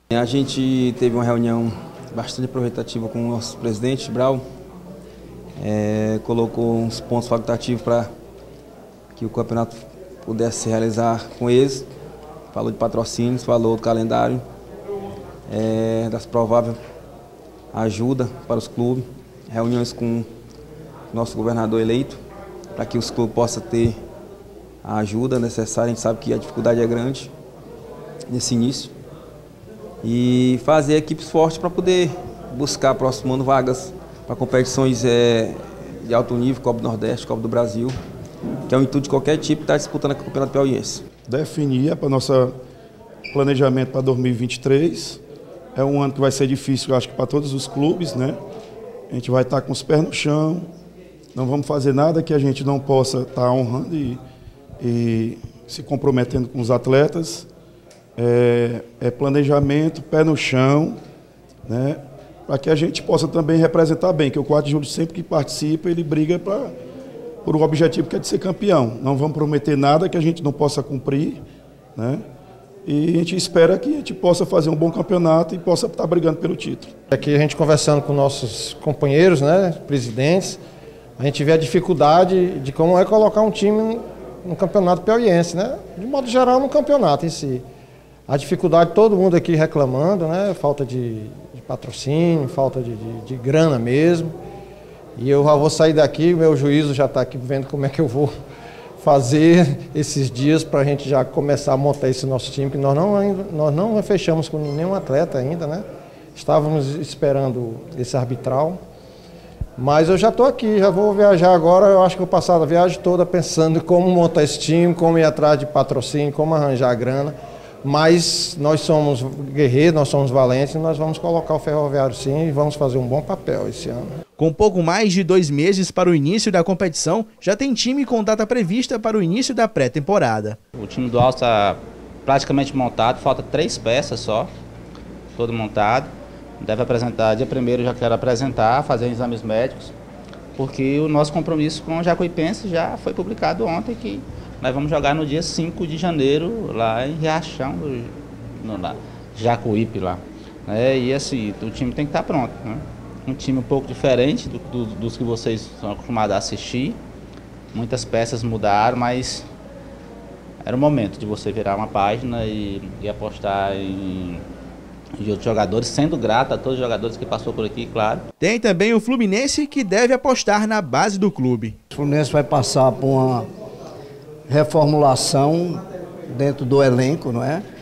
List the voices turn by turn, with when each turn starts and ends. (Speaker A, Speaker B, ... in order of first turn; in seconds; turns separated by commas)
Speaker A: 0.1-4.5, Speaker A: 5.6-8.1, Speaker A: 9.2-11.9, Speaker A: 12.5-14.4, Speaker A: 15.5-16.8, Speaker A: 17.7-20.3, Speaker A: 21.1-22.2, Speaker A: 22.7-24.0, Speaker A: 24.8-27.3, Speaker A: 28.3-28.9, Speaker A: 30.0-38.0, Speaker A: 38.7-41.0, Speaker B: 41.3-42.5, Speaker B: 43.3-45.2, Speaker B: 45.7-48.4, Speaker B: 49.1-50.7, Speaker B: 51.3-54.2, Speaker B: 54.8-57.5, Speaker B: 58.2-61.0, Speaker B: 61.7-66.7, Speaker B: 67.4-71.4, Speaker B: 72.0-72.2, Speaker B: 72.8-76.9, Speaker C: 77.1-80.6, Speaker C: 81.2-87.6, Speaker C: 88.3-94.3, Speaker C: 95.2-98.3, Speaker C: 99.0-105.8, Speaker C: 106.3-108.8, Speaker C: 109.8-124.1, Speaker D: 124.4-130.6, Speaker E: 130.8-134.5, Speaker E: 135.4-139.9, Speaker E: 140.6-157.0, Speaker E: 157.7-159.4, Speaker E: 160.6-164.4, Speaker E: 165.2-168.2, Speaker D: 168.4-171.8, Speaker F: 171.9-173.5, Speaker F: 174.5-177.6